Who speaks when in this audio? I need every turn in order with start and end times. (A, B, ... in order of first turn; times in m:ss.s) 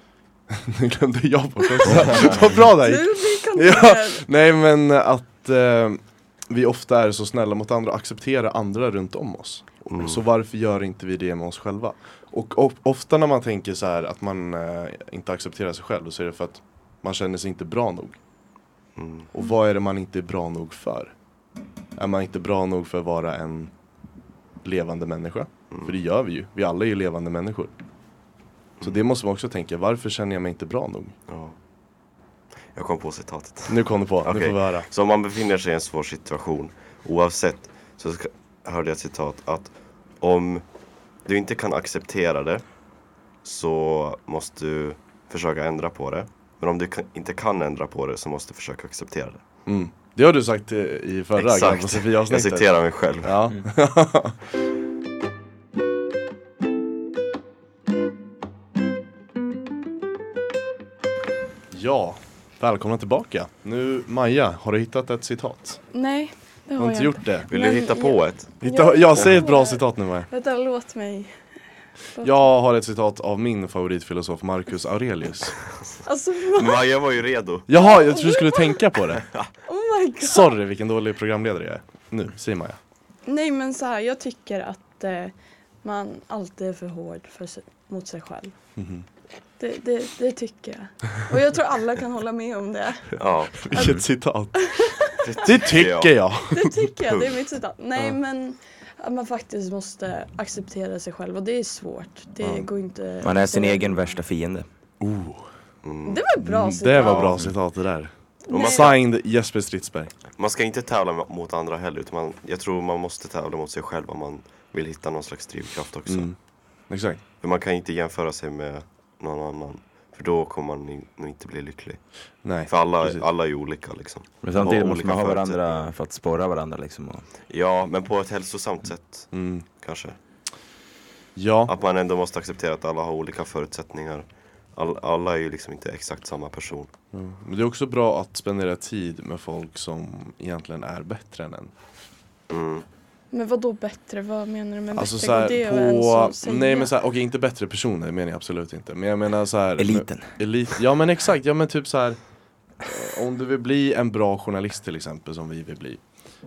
0:00.5-0:18.2 A
0:02.0-0:02.4 B
0:02.6-0:04.2 C
0:09.9-0:10.2 D
0:19.0-0:19.3 D
0:19.3-0:21.1 A
0:22.0-0:23.7 A
0:24.6-0:27.7 A
0:25.7-0:26.0 D
0:28.8-0:31.2 A
0:31.3-0:31.6 D
0:32.7-0:40.6 D
0:33.7-0:34.9 A
0:41.2-0:42.7 D
0:43.4-0:49.4 D
0:49.6-0:54.4 A
0:51.4-0:53.5 D
1:01.7-1:05.8 A
1:05.9-1:11.3 C
1:06.8-1:07.5 A
1:07.5-1:08.5 D
1:08.6-1:10.3 A
1:12.1-1:12.4 C
1:12.2-1:15.6 A
1:16.0-1:16.9 C
1:16.5-1:17.7 D
1:17.7-1:19.3 A
1:17.7-1:18.8 C
1:19.2-1:19.5 D
1:19.6-1:20.6 C
1:20.2-1:22.8 A
1:23.2-1:25.3 C
1:25.8-1:28.5 C
1:28.8-1:29.0 A
1:29.6-1:34.0 C
1:33.1-1:33.9 D
1:33.6-1:34.6 A
1:34.5-1:35.2 C
1:35.2-1:36.2 D
1:35.4-1:36.7 A
1:36.5-1:44.2 C
1:37.0-1:37.3 D
1:43.2-1:44.6 B
1:45.0-1:45.5 A
1:45.8-1:46.2 D
1:46.0-1:47.4 C
1:46.4-1:50.1 A
1:46.9-1:47.4 D
1:48.4-1:48.9 C
1:48.5-1:49.0 D
1:50.3-1:56.3 D
1:56.0-1:56.4 A
1:56.9-1:57.2 A
1:57.4-2:02.0 D
2:02.4-2:03.2 A
2:02.6-2:05.9 D
2:04.4-2:07.2 B
2:07.5-2:10.2 D
2:09.3-2:09.6 A
2:11.4-2:11.7 A
2:11.7-2:16.9 D
2:17.1-2:21.7 A
2:22.5-2:22.8 D
2:23.3-2:26.9 C
2:24.9-2:32.2 A
2:29.8-2:30.4 B
2:32.8-2:36.0 A